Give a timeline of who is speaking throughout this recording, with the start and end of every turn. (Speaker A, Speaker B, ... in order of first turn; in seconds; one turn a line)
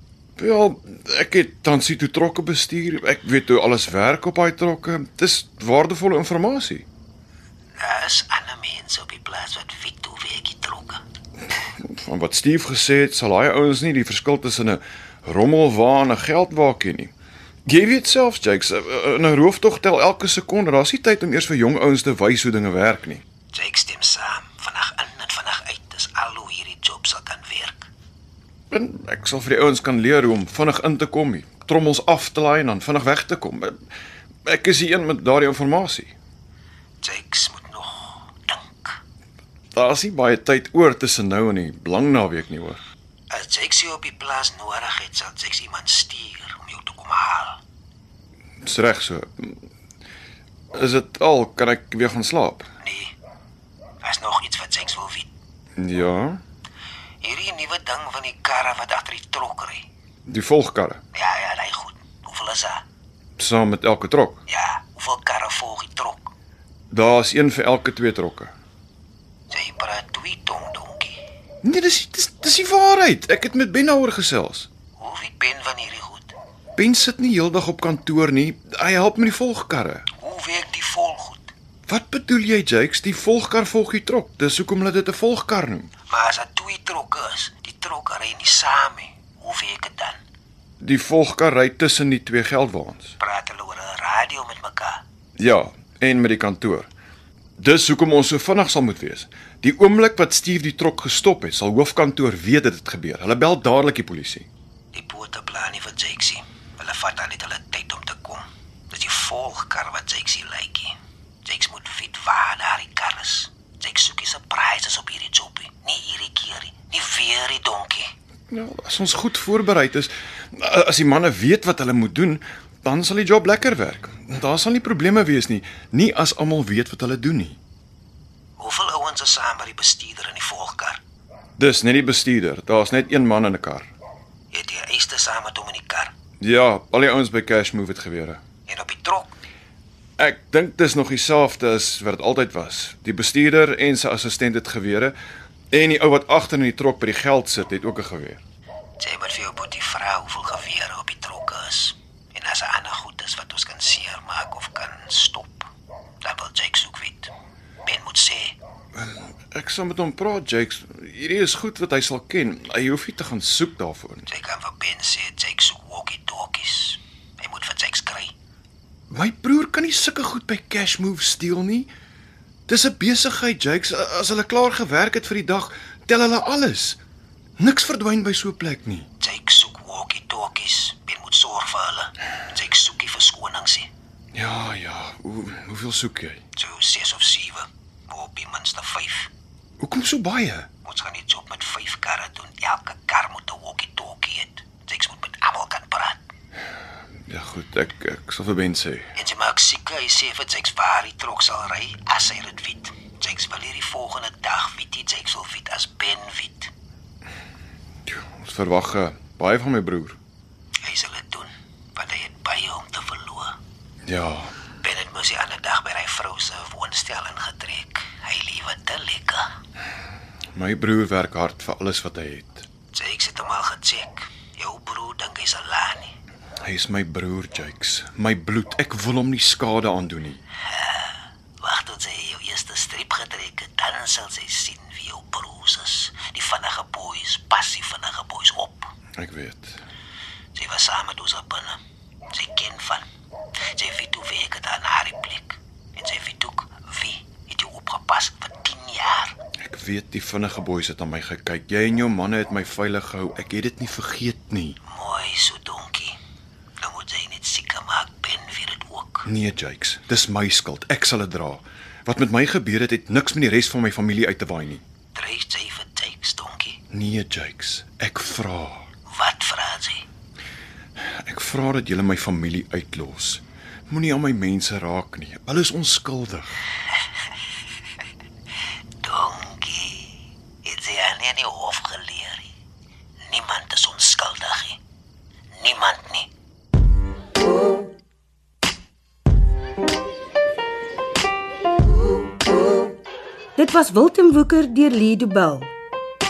Speaker A: 0.4-6.9
Speaker B: 7.8-11.0
Speaker A: 11.8-17.1
Speaker A: 17.7-23.2
Speaker B: 23.5-27.9
Speaker A: 28.7-33.7
Speaker A: 34.5-36.1
Speaker B: 37.0-39.0
Speaker A: 39.7-42.8
Speaker B: 43.3-47.6
Speaker A: 48.6-49.6
Speaker A: 50.7-52.7
Speaker B: 52.8-53.1
Speaker B: 54.0-55.3
Speaker A: 55.8-56.4
Speaker B: 57.2-59.9
Speaker A: 60.3-61.0
Speaker B: 61.1-62.8
Speaker A: 63.4-64.4
Speaker B: 64.5-66.3
Speaker A: 66.9-68.5
Speaker B: 69.5-71.2
Speaker A: 71.6-74.7
Speaker B: 75.0-76.4
Speaker A: 76.8-80.1
Speaker B: 80.2-81.5
Speaker A: 81.9-85.9
Speaker B: 86.1-90.2
Speaker A: 90.8-93.1
Speaker B: 93.2-95.0
Speaker A: 95.4-96.9
Speaker A: 97.6-104.5
Speaker B: 104.9-118.1
Speaker A: 118.5-127.6
Speaker B: 128.6-131.0
Speaker A: 131.6-133.9
Speaker B: 134.5-136.1
Speaker A: 136.4-138.4
Speaker B: 138.7-139.4
Speaker A: 140.2-145.2
Speaker A: 145.7-148.4
Speaker B: 149.0-155.7
Speaker B: 156.2-157.3
Speaker B: 157.8-158.6
Speaker A: 158.9-164.3
Speaker B: 164.3-168.3
Speaker A: 169.1-171.9
Speaker A: 172.7-177.0
Speaker A: 177.6-179.1
Speaker B: 179.2-183.9
Speaker A: 184.3-186.4
Speaker B: 186.6-189.3
Speaker A: 189.8-190.7
Speaker B: 190.8-196.2
Speaker A: 197.3-199.1
Speaker B: 199.2-206.7
Speaker A: 208.1-210.2
Speaker B: 210.8-213.6
Speaker A: 214.1-214.5
Speaker B: 214.8-219.5
Speaker A: 220.6-222.7
Speaker B: 222.9-226.2
Speaker A: 226.6-230.4
Speaker B: 230.7-238.9
Speaker A: 239.2-239.8
Speaker B: 240.6-241.8
Speaker B: 242.3-243.1
Speaker B: 243.7-249.3
Speaker A: 249.6-254.8
Speaker B: 254.9-256.2
Speaker B: 256.8-259.3
Speaker A: 259.3-264.8
Speaker B: 265.1-266.8
Speaker A: 266.9-268.9
Speaker B: 269.1-270.1
Speaker A: 271.2-276.6
Speaker B: 279.0-282.5
Speaker B: 283.3-284.8
Speaker B: 285.6-286.3
Speaker C: 293.6-295.7